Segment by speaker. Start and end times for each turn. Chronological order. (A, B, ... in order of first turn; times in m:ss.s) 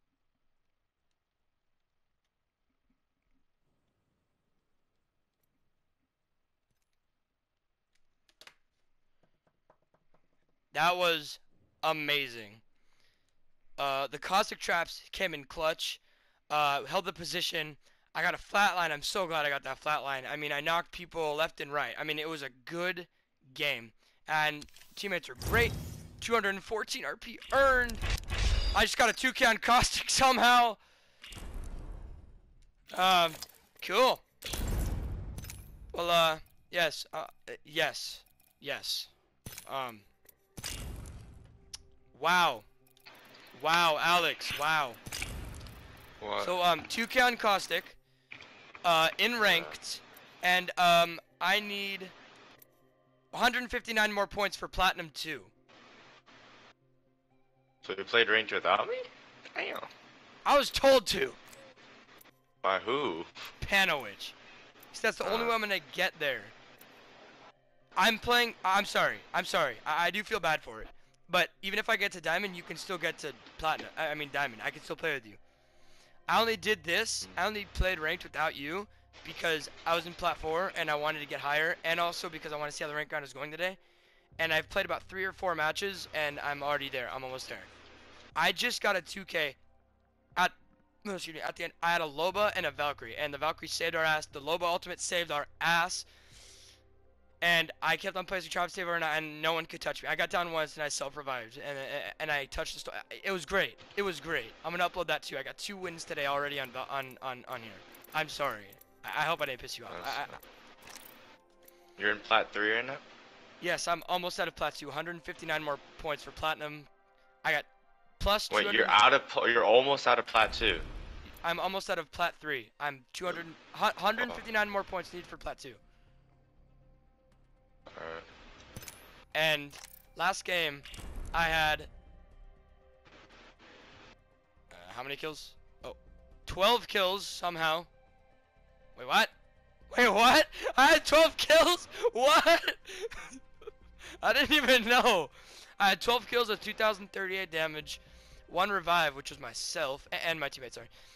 0:10.7-0:12.6 A
0:13.8-0:28.0 A
0:28.7-0:30.8 A
0:32.9-0:34.2 A
0:35.9-0:39.1 A
0:39.6-0:40.0 A
0:42.1-0:42.6 A
0:43.5-0:45.0 A
0:46.2-0:46.6 B
0:46.4-0:48.0 A
0:48.8-0:52.1 A
0:49.4-0:49.8 B
0:53.3-0:55.5 A
0:57.8-0:59.9 B
1:00.4-1:01.4 A
1:02.6-1:03.5 B
1:03.6-1:04.3 A
1:04.9-1:06.5 A
1:05.2-1:05.6 B
1:08.0-1:15.4 A
1:16.3-1:23.8 A
1:24.4-1:27.7 A
1:28.3-1:29.6 A
1:30.4-1:36.0 A
1:37.4-1:50.4 A
1:49.9-1:50.4 B
1:52.0-1:53.0 B
1:53.6-1:56.9 A
1:58.2-1:59.0 A
1:58.5-2:00.9 B
2:01.4-2:05.8 A
2:04.2-2:04.4 B
2:07.9-2:08.2 B
2:09.3-2:11.9 A
2:14.7-2:17.9 A
2:19.0-2:19.3 A
2:19.9-2:23.4 A
2:24.2-2:30.9 A